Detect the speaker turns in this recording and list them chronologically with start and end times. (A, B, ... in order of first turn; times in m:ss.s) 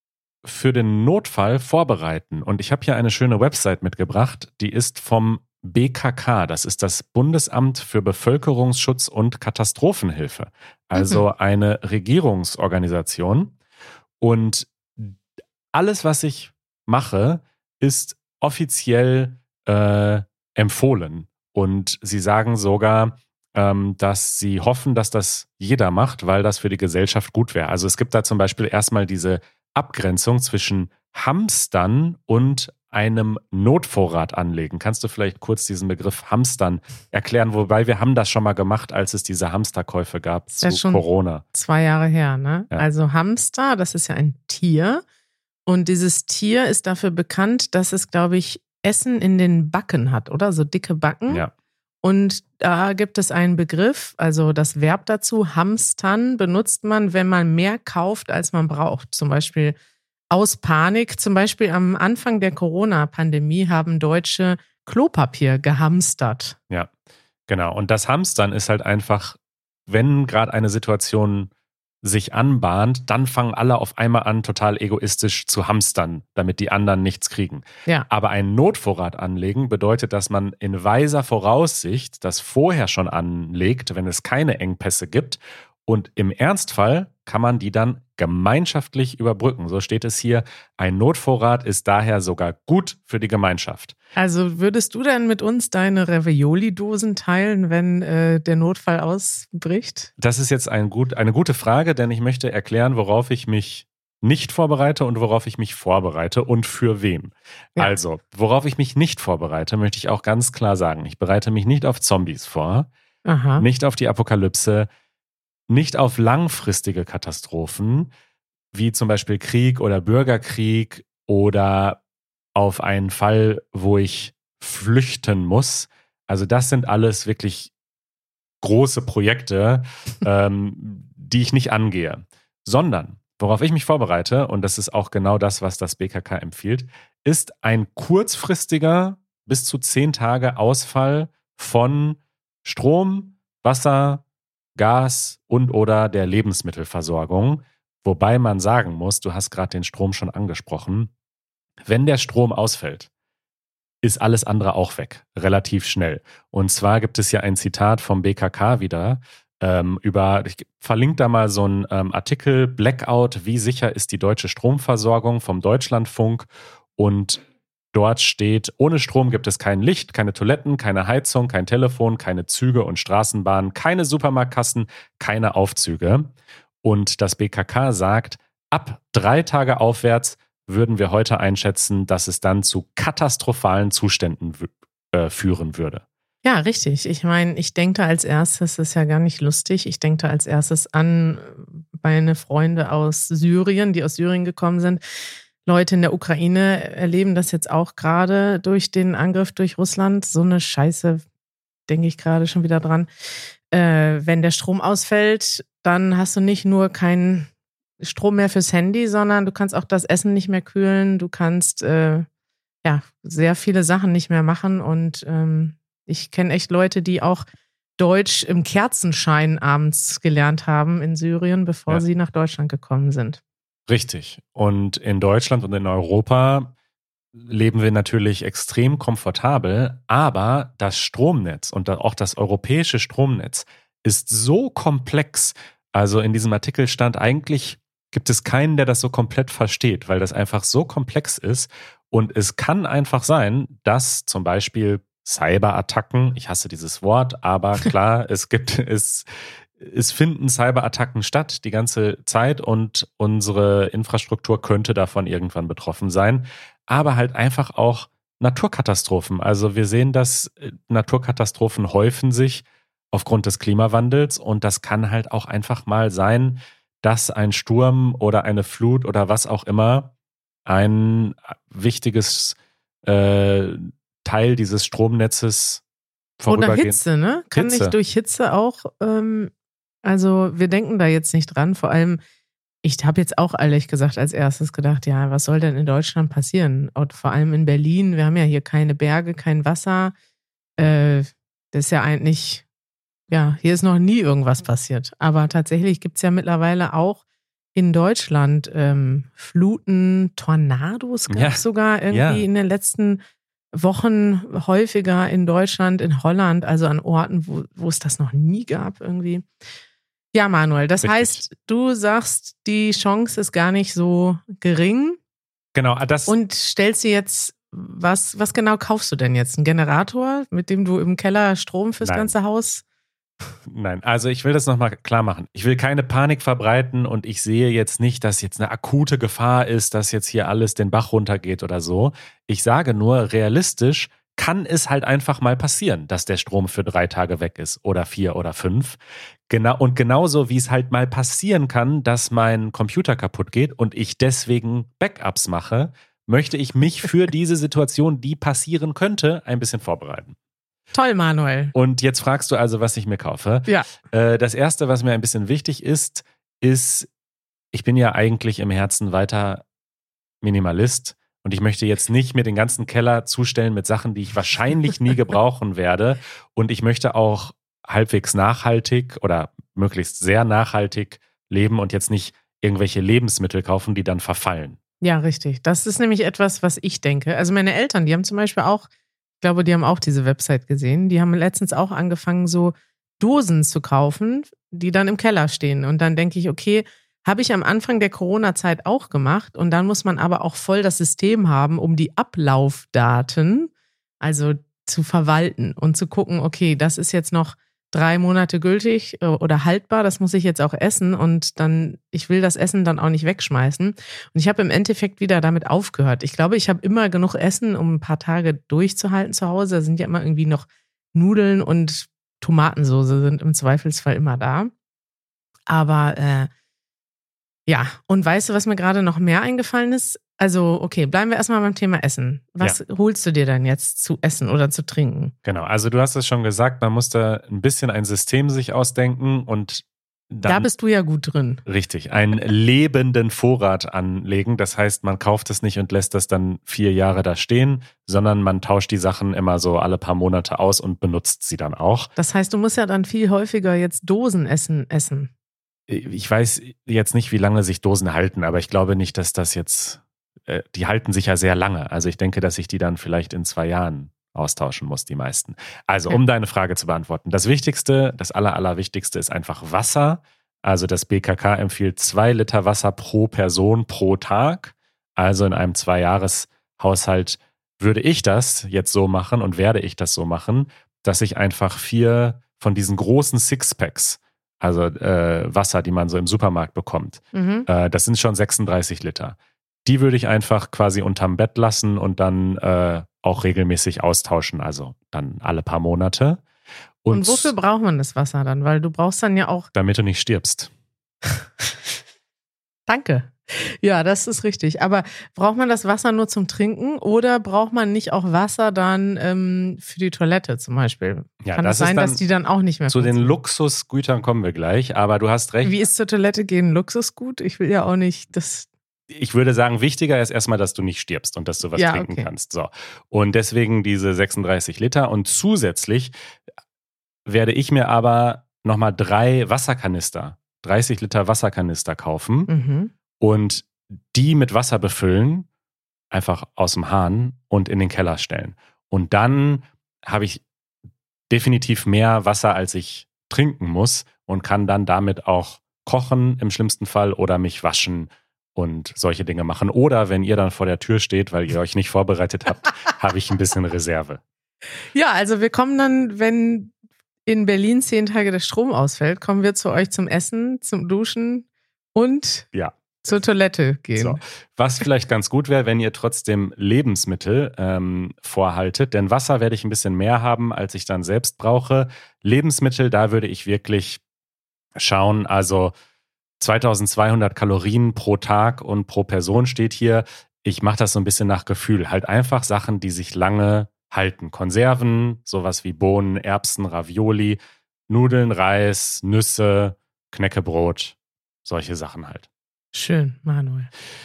0:00.4-0:13.5 A
0:11.0-0:11.2 B
0:14.2-0:15.2 A
0:15.7-0:41.4 A
0:40.6-0:45.0 B
0:45.6-0:51.4 B
0:52.0-0:59.8 B
1:00.3-1:06.6 B
1:07.5-1:11.5 A
1:12.0-1:33.9 A
1:34.2-1:40.1 B
1:40.2-1:52.9 A
1:53.2-1:53.6 B
1:53.6-1:54.9 A
1:55.7-1:58.1 A
1:58.7-2:02.0 A
2:02.5-2:07.7 A
2:08.6-2:24.2 A
2:24.8-2:31.1 A
2:31.8-2:33.1 A
2:34.0-2:47.4 A
2:47.9-2:56.3 A
2:56.8-3:06.0 A
3:06.4-3:15.0 B
3:15.6-3:21.2 B
3:21.9-3:23.1 B
3:23.7-3:27.5 B
3:28.0-3:32.2 B
3:32.8-3:37.5 B
3:38.0-3:43.4 B
3:43.9-3:46.7 A
3:47.3-4:30.1 A
4:30.6-4:35.8 A
4:36.4-4:37.9 A
4:36.5-4:39.5 B
4:40.0-4:42.2 B
4:42.8-4:50.1 B
4:50.8-4:52.6 B
4:53.3-4:57.2 B
4:57.7-5:03.2 B
5:01.3-5:02.5 A
5:03.7-5:09.4 B
5:10.3-5:15.2 B
5:11.0-5:11.4 A
5:15.7-5:16.3 A
5:16.3-5:22.8 B
5:22.0-5:22.3 A
5:23.7-5:39.0 A
5:39.5-5:50.4 A
5:50.9-5:51.7 B
5:51.7-5:57.1 A
5:57.7-5:59.6 A
6:00.4-6:14.8 A
6:15.0-6:18.9 B
6:19.4-6:54.7 B
6:55.7-6:56.5 B
6:57.7-7:05.3 B
7:05.4-7:10.7 A
7:10.4-7:11.6 B
7:11.6-7:22.1 A
7:22.2-7:25.3 B
7:25.9-8:06.4 A
7:57.3-7:57.7 B
8:07.0-8:07.5 A
8:07.1-8:09.7 B
8:09.7-8:10.7 A
8:12.9-8:23.3 B
8:21.4-8:22.2 A
8:22.9-8:25.8 A
8:25.6-8:28.7 B
8:29.1-8:36.1 A
8:31.7-8:32.3 B
8:37.2-8:42.5 A
8:42.5-8:42.9 B
8:43.2-8:45.5 A
8:46.1-8:50.4 A
8:51.3-9:04.2 A
9:04.9-9:06.7 B
9:07.2-9:12.5 B
9:13.0-9:14.2 B
9:14.0-9:24.0 A
9:24.8-9:25.7 A
9:26.4-9:42.3 A
9:42.7-9:43.7 B